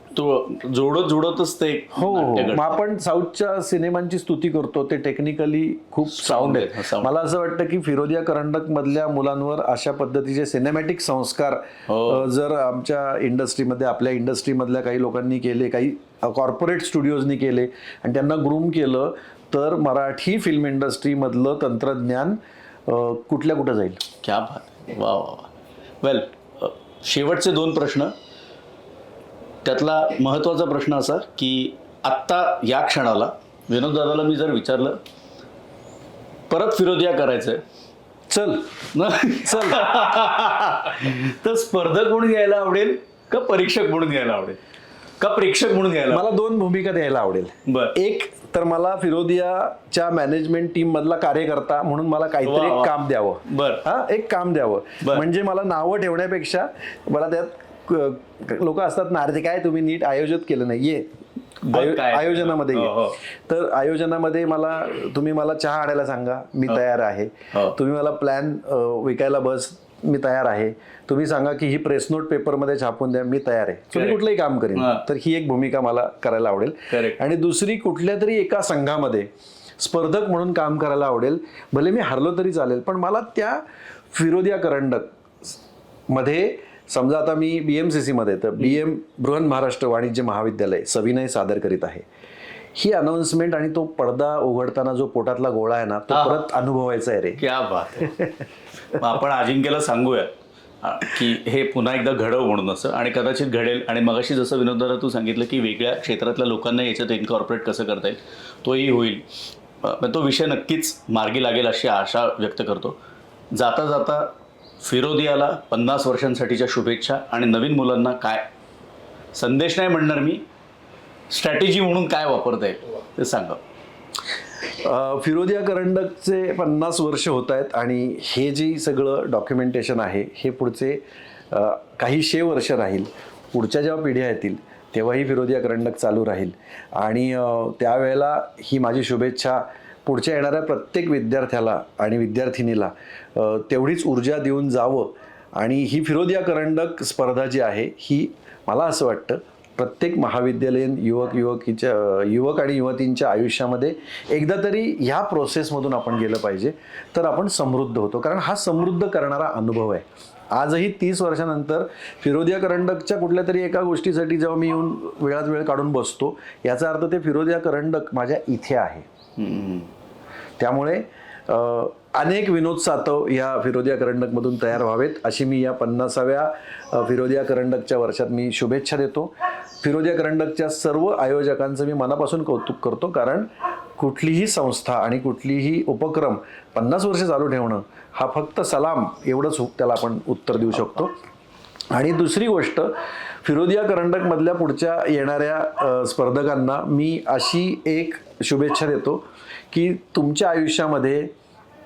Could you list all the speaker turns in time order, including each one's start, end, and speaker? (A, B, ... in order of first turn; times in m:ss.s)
0:00.1-0:02.8 A
0:01.9-0:24.0 B
0:06.0-0:07.1 A
0:11.9-0:12.3 A
0:24.2-0:25.5 A
0:26.0-0:28.1 A
0:29.6-0:35.0 A
0:36.5-0:37.6 A
0:38.3-0:38.8 B
0:38.9-0:44.6 A
0:39.4-0:40.0 B
0:45.2-0:46.3 A
0:46.1-1:32.1 B
0:47.7-0:48.0 A
0:52.4-0:53.0 A
0:53.5-0:53.8 A
1:01.7-1:03.2 A
1:07.5-1:07.8 A
1:13.9-1:14.2 A
1:14.8-1:15.0 A
1:16.9-1:17.2 A
1:32.8-1:37.4 B
1:36.1-1:36.4 A
1:37.4-1:38.2 A
1:38.0-1:38.4 B
1:38.9-1:49.2 A
1:49.8-1:53.0 A
1:53.5-1:54.3 A
1:54.8-1:58.5 A
1:59.3-2:00.4 A
2:01.3-2:03.6 A
2:04.7-2:49.1 B
2:49.4-2:49.9 A
2:50.6-3:11.1 B
3:11.9-3:21.3 B